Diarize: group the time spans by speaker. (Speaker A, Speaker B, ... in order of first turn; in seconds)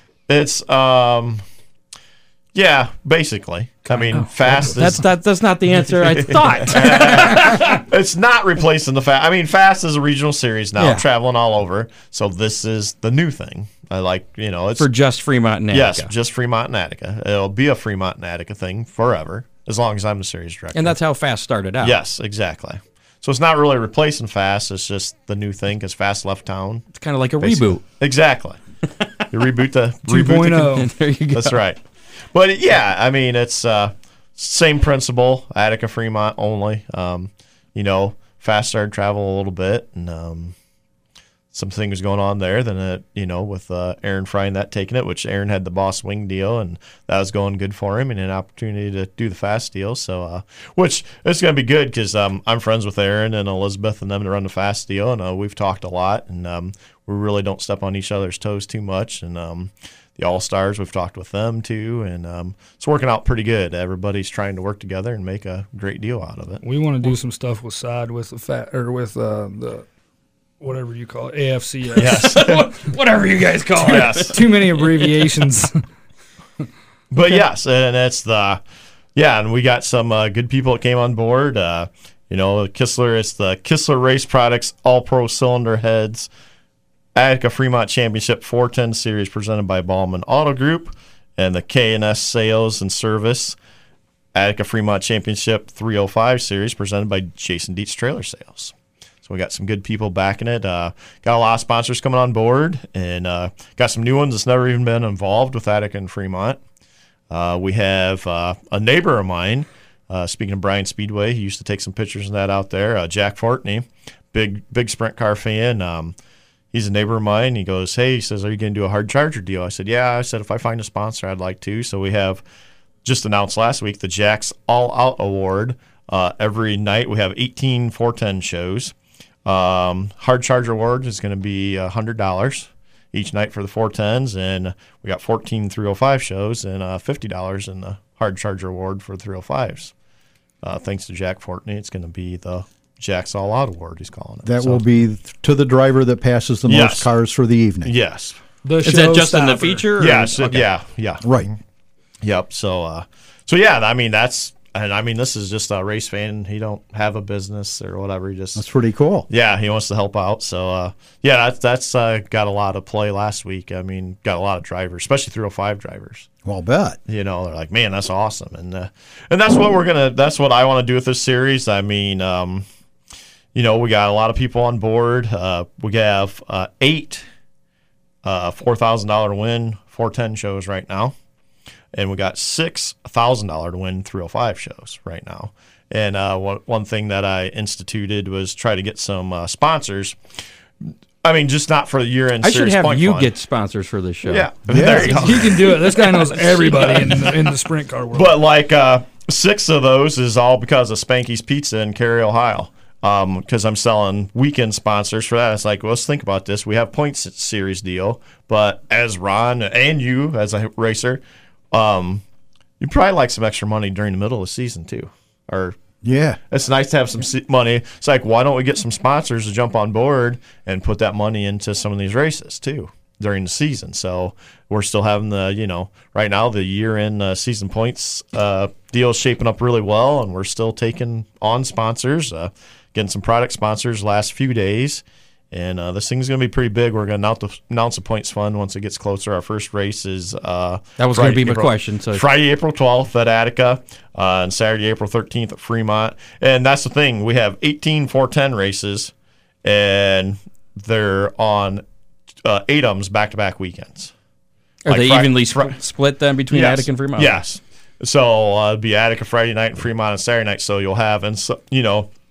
Speaker A: 0.3-1.4, 2.5-5.0, 6.0-14.9, 15.7-21.0, 21.8-26.8, 27.4-28.6, 29.3-30.8, 31.3-31.8, 32.3-40.5, 41.5-66.6, 72.0-72.7, 73.8-74.4, 77.1-78.6, 79.1-86.3, 87.1-93.5, 94.3-98.7, 99.2-106.6, 107.3-116.1, 116.7-122.4, 123.0-128.9, 129.4-139.9, 140.6-144.8, 146.7-147.1, 147.8-148.4, 150.0-151.5, 152.2-158.7, 159.3-166.3, 167.1-172.6, 173.5-177.2, 178.2-181.1, 181.9-190.2, 191.2-193.3, 194.2-197.5, 198.1-212.2, 212.8-215.8, 216.5-249.1, 249.6-251.8, 252.4-254.1, 254.9-255.8, 256.5-262.1
Speaker B: 3.9-7.8, 10.8-11.0, 14.8-16.1, 20.7-22.0, 26.9-27.8, 30.7-31.6, 72.0-75.1, 148.8-150.7, 192.4-194.5, 241.0-242.2, 254.8-257.4
Speaker C: 4.5-4.7, 30.1-30.9, 66.6-69.8, 70.6-72.5, 73.8-75.8, 148.6-149.9, 195.1-198.3
Speaker D: 144.4-147.9, 151.2-151.5, 158.6-159.3, 166.4-167.0, 194.7-195.3, 216.0-216.4